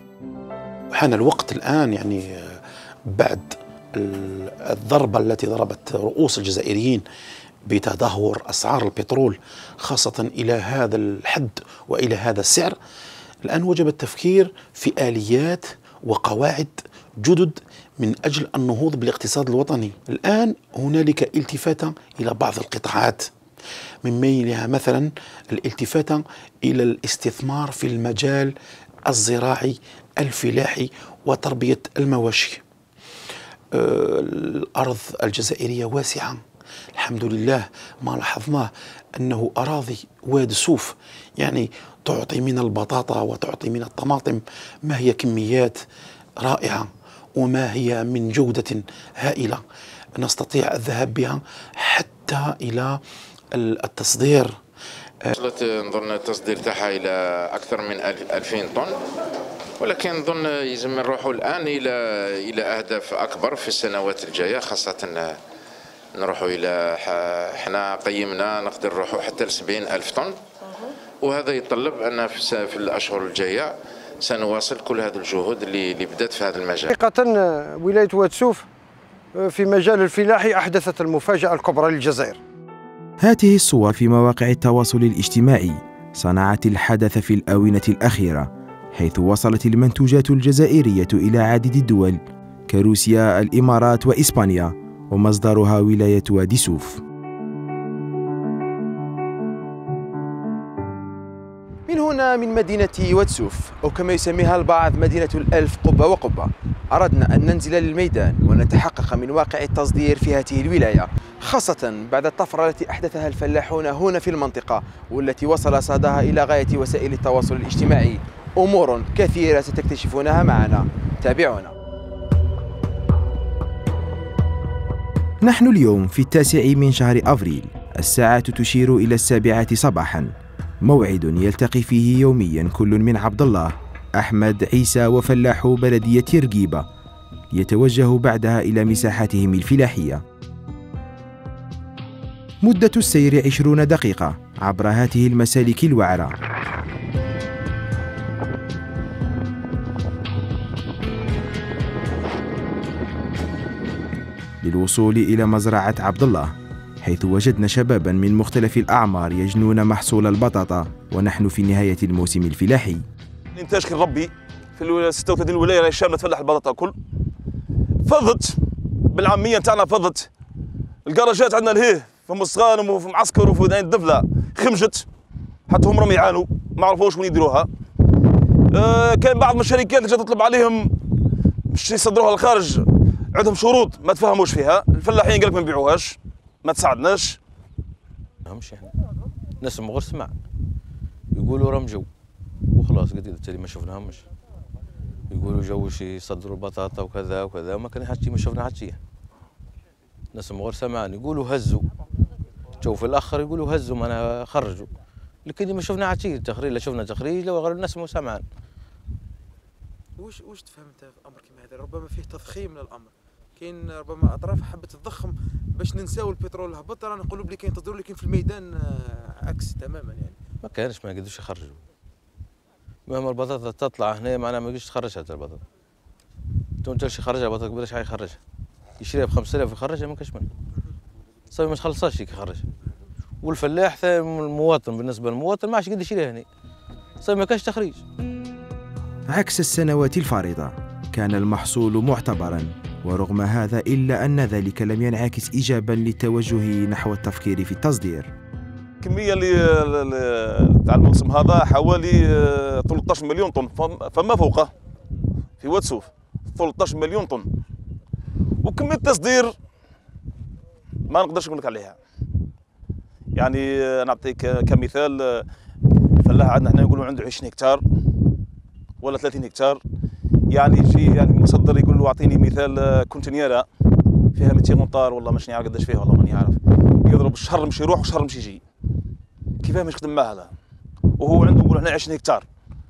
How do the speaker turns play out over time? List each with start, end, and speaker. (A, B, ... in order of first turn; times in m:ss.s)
0:00.9-0:07.0 A
0:07.6-0:12.8 A
0:13.4-0:23.3 A
0:24.0-0:28.5 A
0:29.0-0:32.6 A
0:33.7-0:36.4 A
0:37.0-0:45.8 A
0:46.4-0:49.6 A
0:50.2-0:53.0 A
0:53.5-0:54.6 A
0:55.4-0:58.9 B
0:59.8-1:05.4 B
1:06.1-1:10.4 B
1:11.2-1:16.9 B
1:16.9-1:18.6 C
1:19.3-1:22.4 C
1:23.2-1:37.0 D
1:41.9-2:01.7 E
2:05.4-2:16.8 D
2:17.5-2:20.2 D
2:22.6-2:26.3 D
2:34.6-2:43.0 D
2:43.5-2:46.9 F
2:48.0-2:48.6 F
2:49.1-2:50.3 F
2:51.0-2:55.0 F
2:55.7-2:57.7 F
2:58.7-3:00.9 F
3:01.7-3:07.4 F
3:08.5-3:08.9 G
3:09.6-3:10.3 G
3:11.3-3:12.1 G
3:12.7-3:14.2 G
3:15.3-3:19.0 G
3:20.3-3:21.8 G
3:22.8-3:24.9 G
3:25.4-3:28.4 G
3:30.2-3:40.4 E
3:40.6-3:41.8 G
3:43.1-3:45.6 G
3:46.8-3:48.4 G
3:49.0-3:50.5 G
3:51.5-3:52.6 G
3:53.4-3:56.4 G
3:57.2-3:58.0 G
3:59.3-4:08.3 D
4:09.0-4:14.7 F
4:15.6-4:17.5 F
4:18.6-4:19.5 F
4:21.1-4:22.0 F
4:23.3-4:25.4 F
4:26.2-4:27.8 F
4:29.0-4:29.8 F
4:30.5-4:33.7 F
4:34.3-4:38.6 F
4:39.6-4:40.5 F
4:41.2-4:42.4 F